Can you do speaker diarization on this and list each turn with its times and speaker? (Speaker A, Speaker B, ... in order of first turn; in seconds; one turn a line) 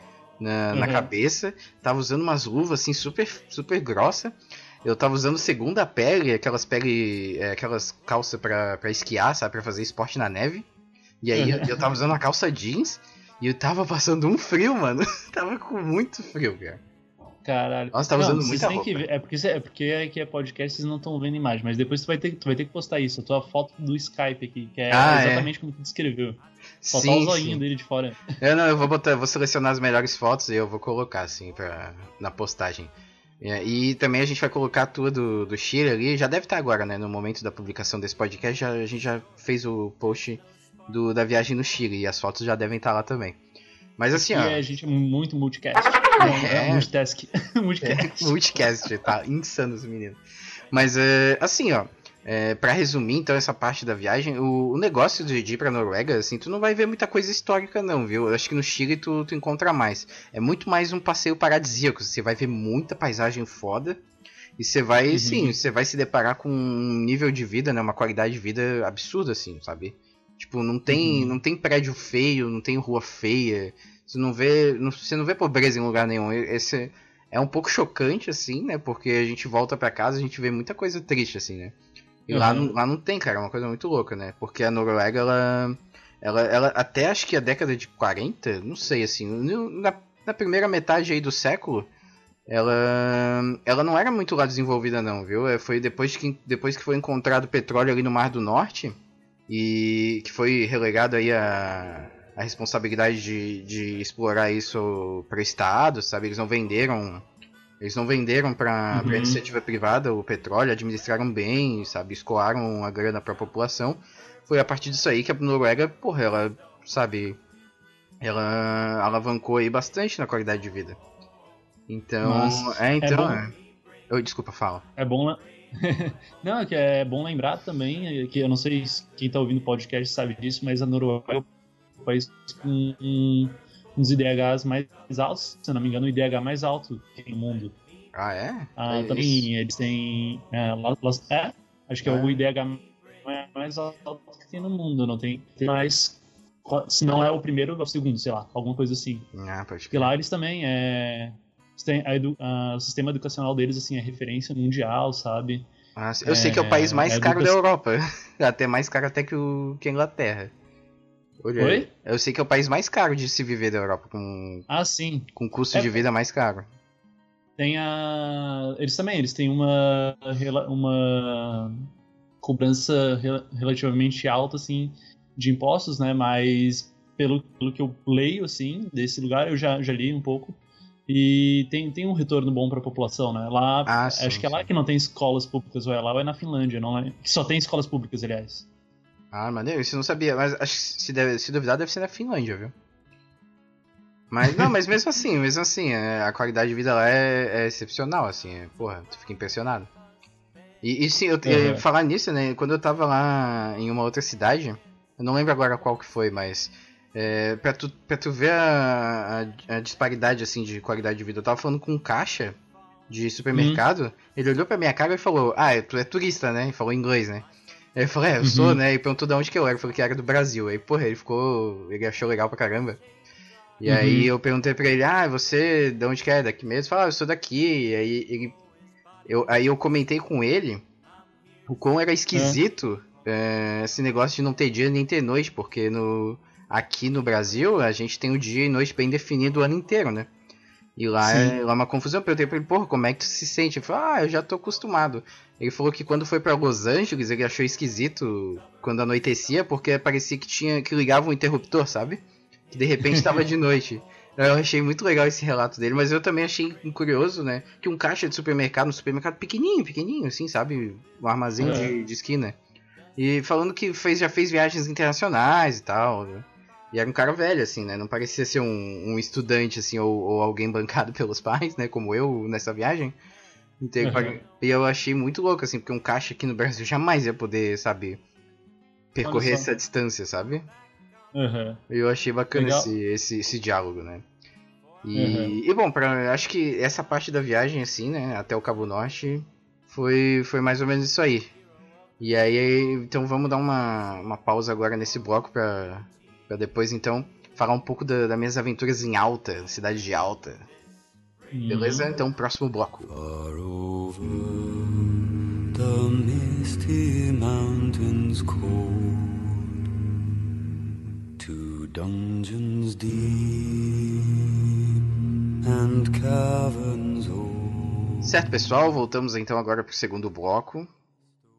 Speaker A: 0.4-10.7
Speaker B: 0.7-1.1
Speaker A: 11.2-16.8
Speaker B: 11.3-11.8
Speaker B: 17.4-28.4
Speaker A: 17.9-19.0
Speaker A: 24.9-25.5
Speaker A: 26.8-27.6
Speaker A: 28.4-43.4
Speaker A: 44.0-44.6
Speaker B: 44.1-48.3
Speaker A: 46.2-46.9
Speaker A: 47.8-50.2
Speaker A: 50.7-64.0
Speaker A: 64.6-81.8
Speaker B: 65.1-65.5
Speaker B: 70.9-71.3
Speaker A: 82.3-91.9
Speaker B: 82.3-82.7
Speaker A: 92.5-99.0
Speaker A: 99.5-107.2
Speaker A: 107.8-117.4
Speaker B: 108.9-109.4
Speaker A: 118.2-121.0
Speaker A: 121.9-123.5
Speaker B: 122.2-123.4
Speaker A: 124.1-124.8
Speaker B: 125.0-131.5
Speaker B: 132.0-137.7
Speaker A: 138.1-139.5
Speaker B: 138.8-149.3
Speaker A: 142.0-142.4
Speaker A: 149.3-150.1
Speaker B: 149.9-155.7
Speaker A: 155.9-160.5
Speaker B: 156.2-157.6
Speaker A: 161.4-164.6
Speaker B: 161.6-161.9
Speaker B: 164.7-166.0
Speaker A: 165.3-166.7
Speaker B: 167.6-171.9
Speaker B: 172.4-188.7
Speaker A: 183.8-184.7
Speaker A: 189.3-192.7
Speaker A: 194.3-199.9
Speaker A: 200.8-212.6
Speaker B: 201.4-201.8
Speaker A: 213.1-223.0
Speaker B: 213.5-213.8
Speaker B: 218.4-218.8
Speaker A: 223.8-228.5
Speaker B: 223.8-224.3
Speaker A: 229.2-230.8
Speaker A: 231.7-240.3
Speaker B: 232.3-232.6
Speaker A: 240.9-262.6
Speaker B: 241.2-241.6
Speaker B: 253.1-253.3
Speaker B: 261.6-261.9
Speaker A: 263.2-273.1
Speaker A: 273.8-278.2
Speaker B: 274.0-274.4
Speaker A: 279.1-280.6
Speaker B: 279.2-279.7
Speaker B: 281.3-281.8
Speaker A: 281.9-284.2
Speaker B: 282.5-282.9
Speaker A: 285.0-291.5
Speaker B: 285.1-285.6
Speaker A: 292.2-300.6
Speaker B: 301.5-302.1
Speaker A: 301.7-303.1
Speaker C: 303.1-309.6
Speaker C: 311.4-314.3
Speaker C: 315.6-318.7
Speaker A: 318.2-320.9